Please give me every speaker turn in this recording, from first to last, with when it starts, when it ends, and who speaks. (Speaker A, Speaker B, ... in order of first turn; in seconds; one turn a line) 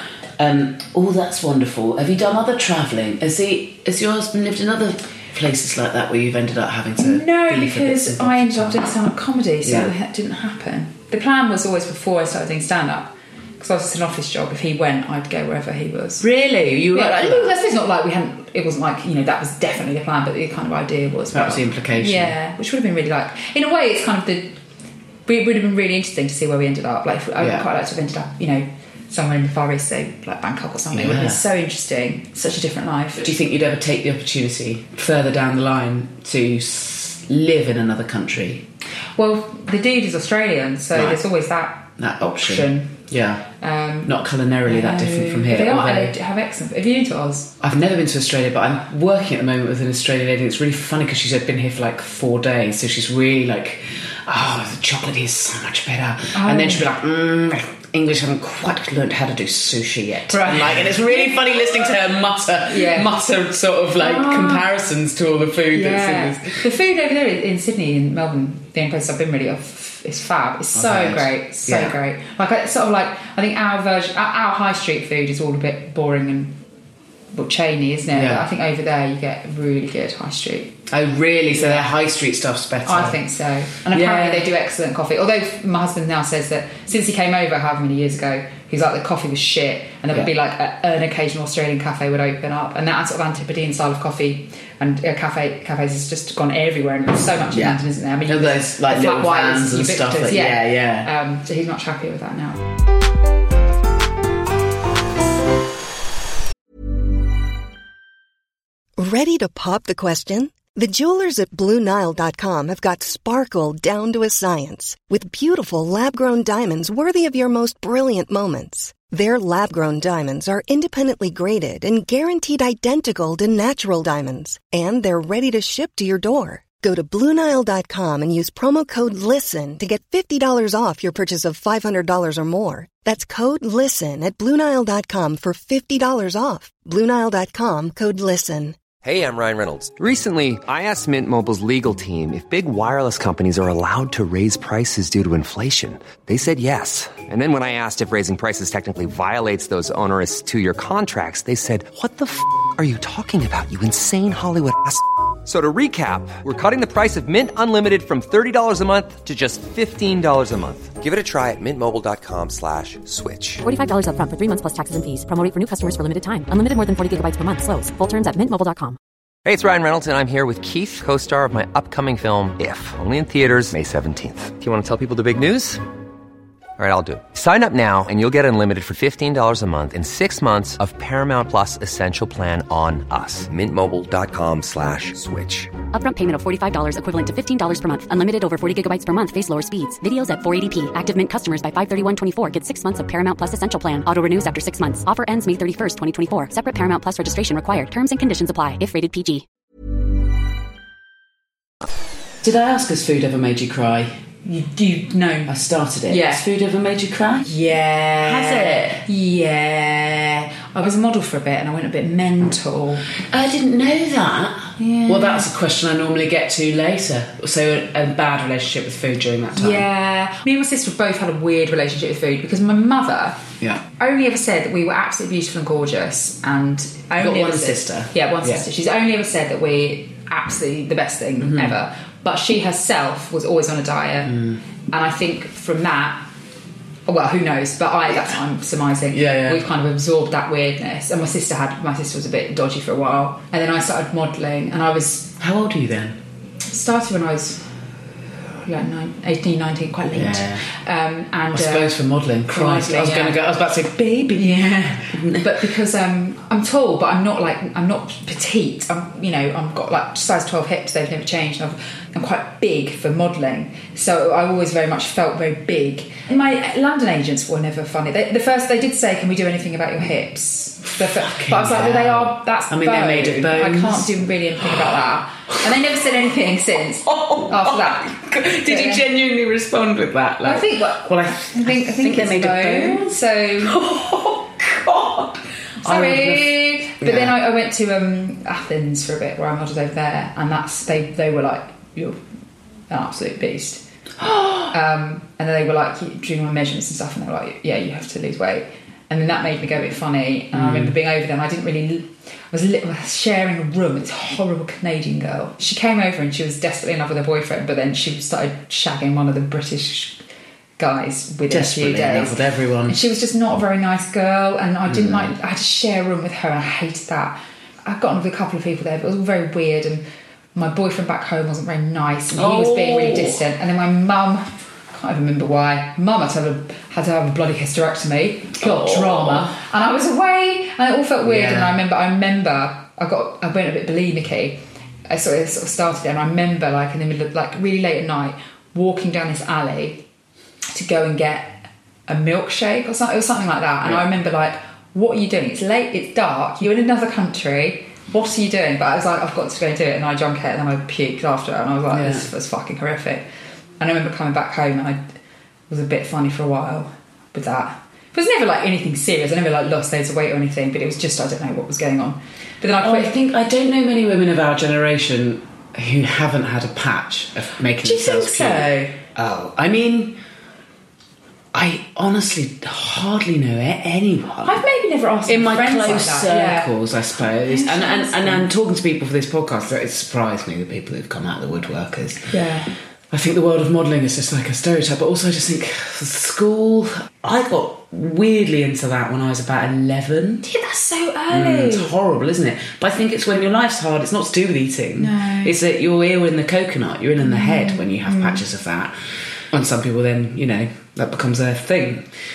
Speaker A: 0.4-8.9
Speaker B: 7.0-16.2
Speaker A: 9.6-9.9
Speaker A: 16.2-17.5
Speaker B: 16.9-24.6
Speaker A: 21.3-22.3
Speaker B: 25.2-33.3
Speaker A: 27.4-27.6
Speaker A: 30.9-31.4
Speaker A: 33.2-38.6
Speaker B: 39.1-43.0
Speaker A: 40.9-41.2
Speaker A: 42.0-43.4
Speaker B: 43.6-44.1
Speaker A: 44.0-46.1
Speaker B: 44.6-47.5
Speaker A: 47.6-66.6
Speaker B: 56.3-56.9
Speaker B: 60.3-61.7
Speaker B: 62.6-63.1
Speaker B: 64.0-64.6
Speaker B: 65.7-76.6
Speaker A: 70.7-71.9
Speaker B: 77.3-80.8
Speaker A: 78.1-78.5
Speaker A: 80.9-83.2
Speaker B: 81.5-81.9
Speaker B: 82.8-102.6
Speaker A: 83.9-84.5
Speaker A: 97.5-101.1
Speaker C: 109.0-138.8
Speaker D: 139.0-163.6
Speaker E: 163.6-169.0
Speaker D: 169.4-175.8
Speaker D: 176.8-185.7
Speaker E: 185.9-199.4
Speaker A: 202.4-204.1
Speaker B: 204.4-205.5
Speaker A: 205.5-207.5
Speaker B: 206.1-206.4
Speaker B: 207.4-213.0
Speaker A: 208.2-209.0
Speaker A: 213.3-219.8
Speaker B: 214.8-215.5
Speaker B: 219.6-223.4
Speaker B: 224.0-234.4
Speaker A: 227.2-228.7
Speaker A: 231.4-231.7
Speaker A: 234.3-234.6
Speaker B: 234.9-236.2
Speaker B: 237.1-245.4
Speaker A: 239.1-239.6
Speaker A: 245.4-246.2
Speaker B: 246.7-247.6
Speaker B: 248.6-253.4
Speaker A: 250.1-250.6
Speaker A: 251.5-255.6
Speaker B: 254.3-279.0
Speaker A: 271.0-274.1
Speaker A: 277.1-283.1
Speaker B: 280.4-283.8
Speaker A: 283.6-287.3
Speaker B: 285.8-292.2
Speaker B: 292.9-293.8
Speaker A: 294.2-294.7
Speaker B: 294.7-310.2
Speaker A: 300.5-300.9
Speaker B: 310.8-320.0
Speaker A: 311.5-313.0
Speaker A: 314.9-315.3
Speaker B: 320.5-340.0
Speaker A: 322.3-323.4
Speaker A: 328.6-329.5
Speaker A: 331.2-331.8
Speaker B: 340.7-353.2
Speaker A: 351.9-352.3
Speaker B: 353.8-355.1
Speaker B: 355.7-363.1
Speaker A: 362.8-370.2
Speaker B: 367.8-369.0
Speaker A: 371.5-374.6
Speaker B: 374.4-378.5
Speaker A: 375.2-382.3
Speaker B: 382.3-382.7
Speaker A: 383.1-390.4
Speaker B: 390.4-391.9
Speaker A: 391.3-398.9
Speaker B: 395.0-395.5
Speaker B: 397.2-398.4
Speaker A: 399.5-402.1